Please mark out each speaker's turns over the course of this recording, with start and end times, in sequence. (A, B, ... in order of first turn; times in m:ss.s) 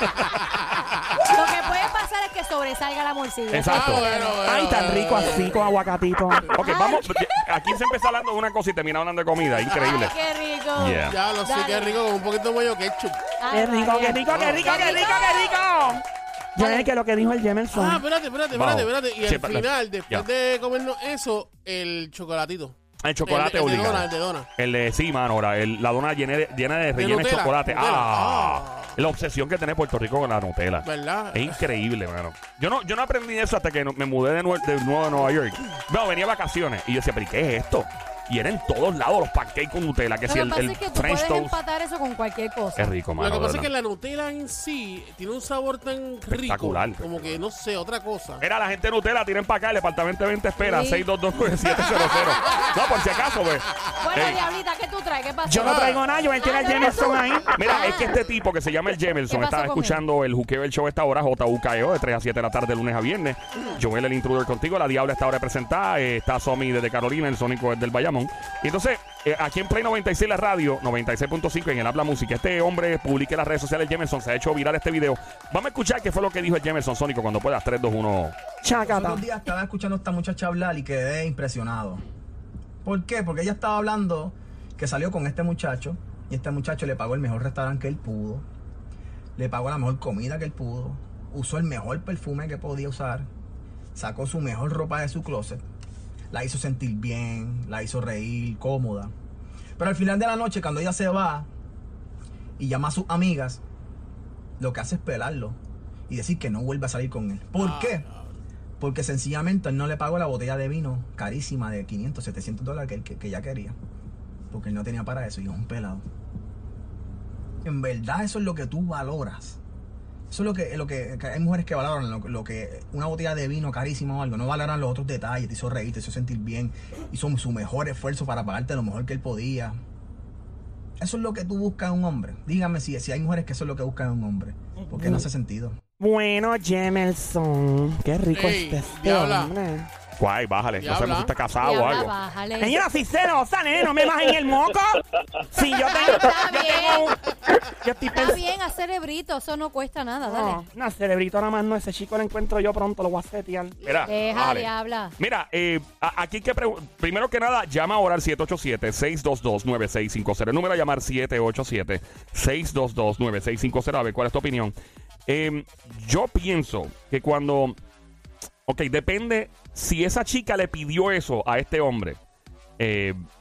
0:01.3-0:04.4 A
0:03.5-0:04.0 B
0:03.7-0:05.7 C
0:04.4-0:06.6 D
0:06.5-0:10.1 B
0:06.6-0:07.2 A
0:09.7-0:12.0 A
0:10.8-0:11.2 B
0:11.1-0:13.2 C
0:13.4-0:15.7 A
0:13.5-0:16.0 D
0:14.3-0:15.0 C
0:16.6-0:18.0 D
0:16.6-0:16.9 A
0:17.7-0:24.5 C
0:18.5-0:20.3 B
0:23.0-0:41.6 B
0:26.9-0:29.0 C
0:30.8-0:31.6 C
0:40.3-0:42.9 A
0:42.8-0:43.7 B
0:43.2-0:48.4 C
0:46.3-0:47.4 B
0:48.4-0:54.4 B
0:50.6-0:51.1 A
0:54.0-0:58.3 A
0:55.5-0:57.6 D
0:55.6-0:56.0 C
0:57.5-1:18.4 B
0:59.3-1:00.0 A
1:18.6-1:19.2 D
1:18.8-1:22.0 E
1:22.8-1:28.5 E
1:29.4-1:33.3 E
1:34.0-1:35.6 E
1:36.3-1:39.1 E
1:39.8-1:41.5 E
1:42.6-1:43.6 E
1:44.6-1:45.6 E
1:46.1-1:48.1 E
1:47.6-1:48.4 C
1:48.8-1:53.8 E
1:54.5-1:56.0 E
1:57.6-1:59.6 E
2:00.3-2:09.8 E
2:11.0-2:15.8 E
2:14.9-2:15.2 D
2:16.0-2:19.9 D
2:18.3-2:19.6 C
2:20.2-2:22.1 B
2:20.8-2:21.3 C
2:21.6-2:22.8 A
2:22.6-2:27.2 D
2:25.7-2:27.2 A
2:27.7-2:28.4 D
2:28.1-2:30.6 A
2:30.2-2:33.8 D
2:33.8-2:44.7 B
2:34.1-2:35.1 A
2:45.3-2:47.8 B
2:48.7-2:52.2 B
2:52.8-2:53.2 B